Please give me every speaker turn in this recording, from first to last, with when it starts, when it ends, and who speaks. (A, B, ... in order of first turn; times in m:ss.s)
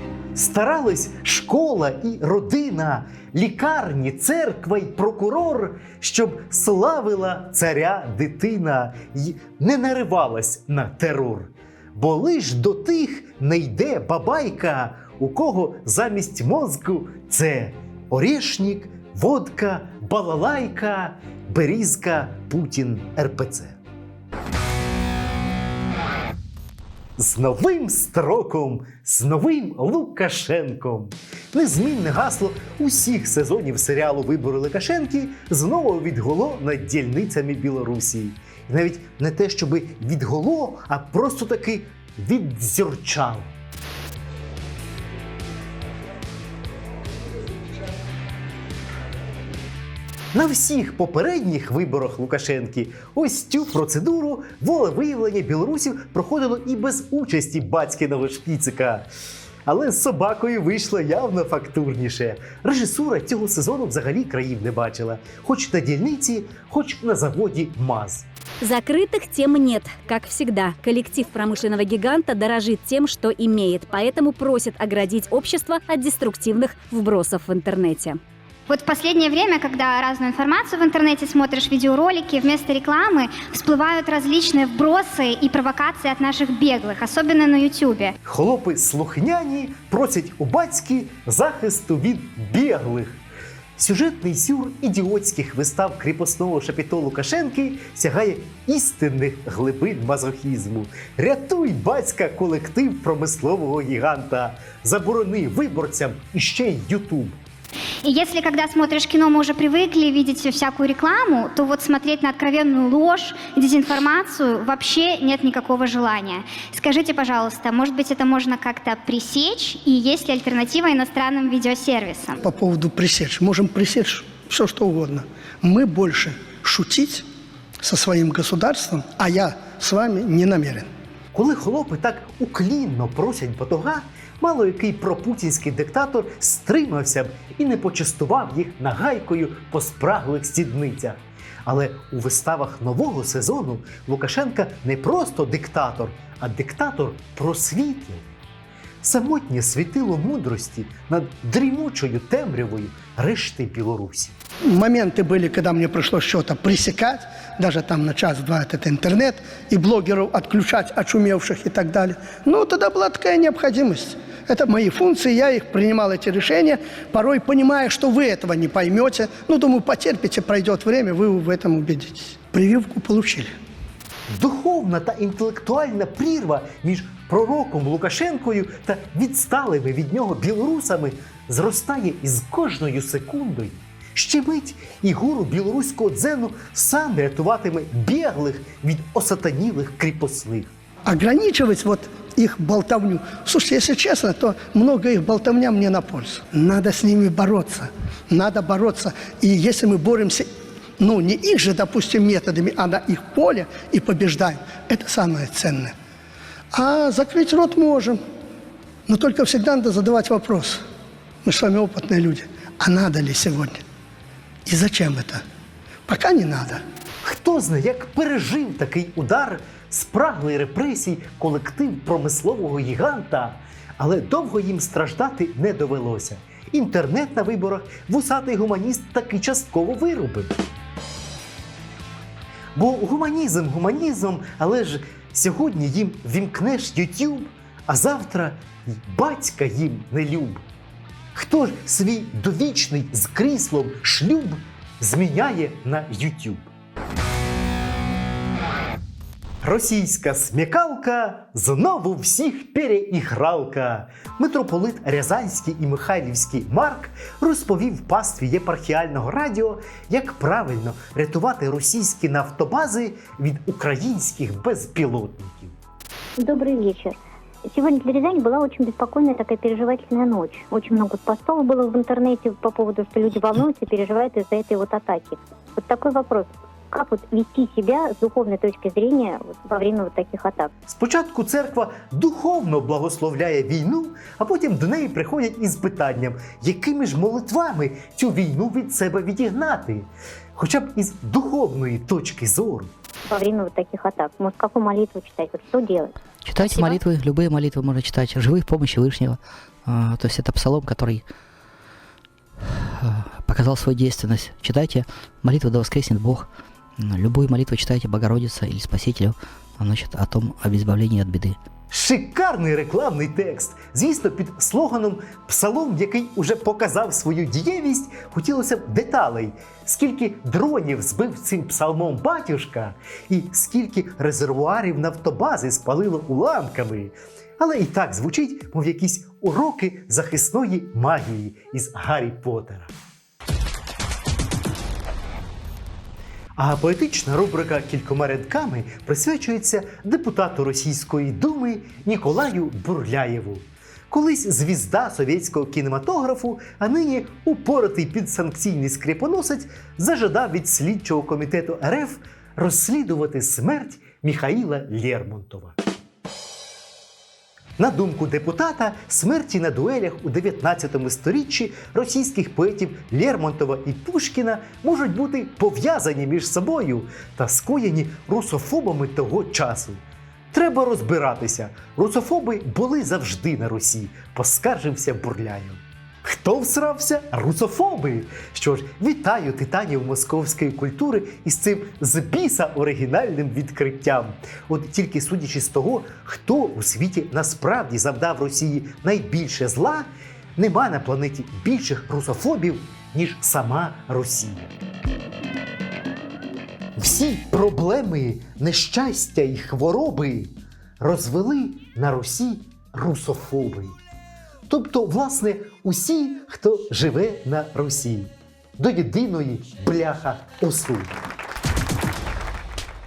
0:00.4-0:23.8 A
0:27.2-0:43.5 A
0:50.3-0:59.1 A
0:59.7-1:08.3 A
1:08.6-1:18.2 B
1:18.7-1:28.2 C
1:28.3-1:33.2 A
1:33.8-1:47.4 A
1:48.0-2:02.4 C
2:02.4-2:07.3 D
2:07.8-2:10.9 D
2:11.3-2:28.3 A
2:29.0-2:34.4 A
2:34.7-2:53.5 D
2:54.3-3:10.7 A
3:11.1-3:25.9 D
3:26.7-3:28.2 D
3:29.1-3:30.8 D
3:31.4-3:33.8 D
3:34.7-3:35.4 D
3:36.1-3:36.8 D
3:37.2-3:50.5 A
3:52.8-4:00.6 A
4:01.4-4:06.7 A
4:09.6-4:25.8 A
4:26.4-4:27.2 E
4:27.7-4:40.7 E
4:40.9-4:52.9 A
4:53.3-4:57.0 E
4:57.1-4:59.3 F
4:59.9-5:01.2 F
5:03.0-5:06.4 F
5:07.0-5:11.5 F
5:11.9-5:32.9 A
5:36.6-5:55.8 A
5:57.8-6:34.7 A
6:37.0-6:44.0 A
6:44.7-6:51.2 A